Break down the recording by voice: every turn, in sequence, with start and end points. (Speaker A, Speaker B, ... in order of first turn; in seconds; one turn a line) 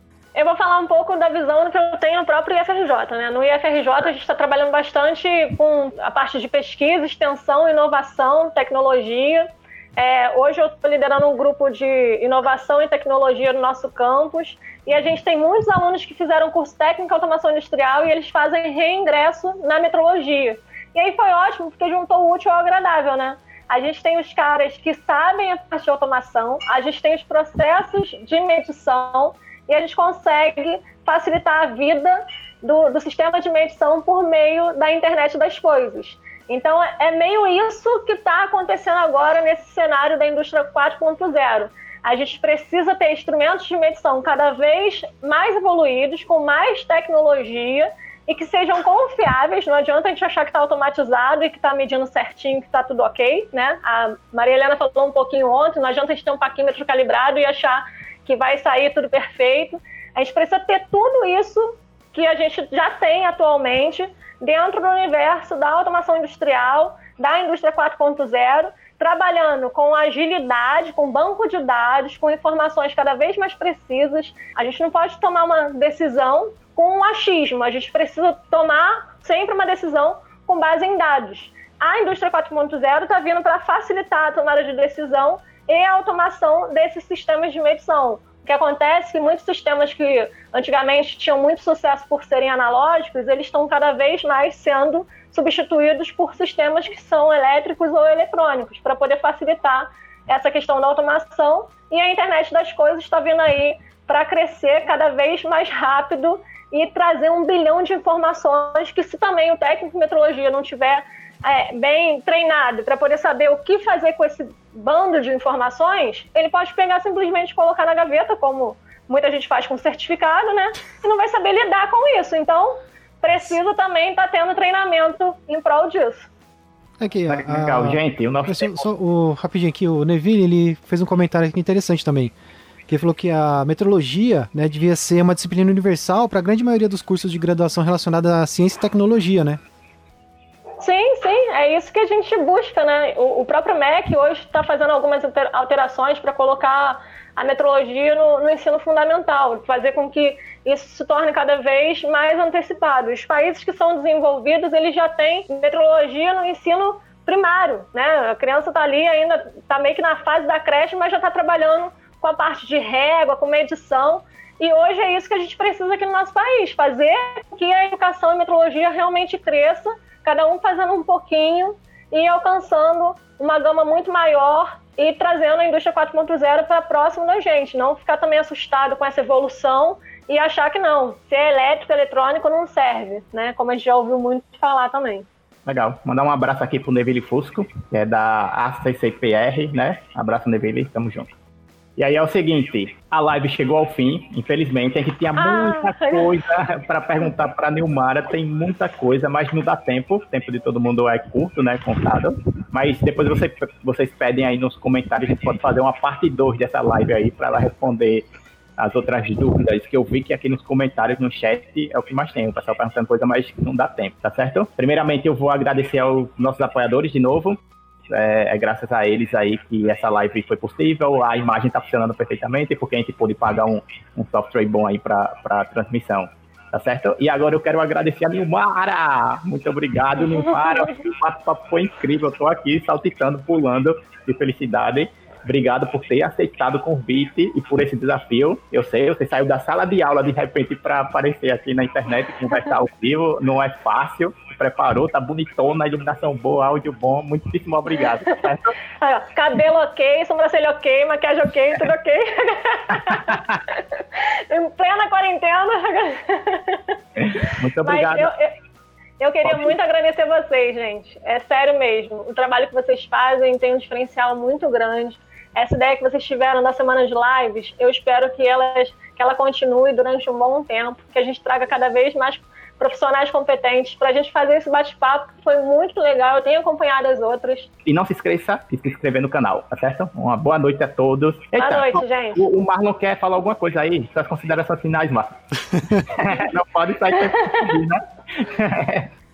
Speaker A: 0.3-126.3
Speaker B: 127.0-132.3
Speaker C: 127.3-128.9
Speaker B: 132.9-139.6
Speaker A: 140.8-185.3
Speaker C: 185.7-191.3
Speaker C: 192.0-208.3
Speaker A: 195.4-196.3
Speaker C: 208.8-217.6
Speaker C: 218.1-248.7
Speaker A: 230.3-230.9
Speaker A: 248.0-248.5
Speaker A: 249.0-256.9
Speaker C: 253.1-253.6
Speaker C: 257.2-258.3
Speaker A: 257.8-258.5
Speaker A: 259.2-277.7
Speaker C: 259.4-259.8
Speaker C: 277.8-285.3
Speaker A: 281.6-282.4
Speaker B: 285.7-286.1
Speaker C: 286.0-289.1
Speaker A: 287.3-287.8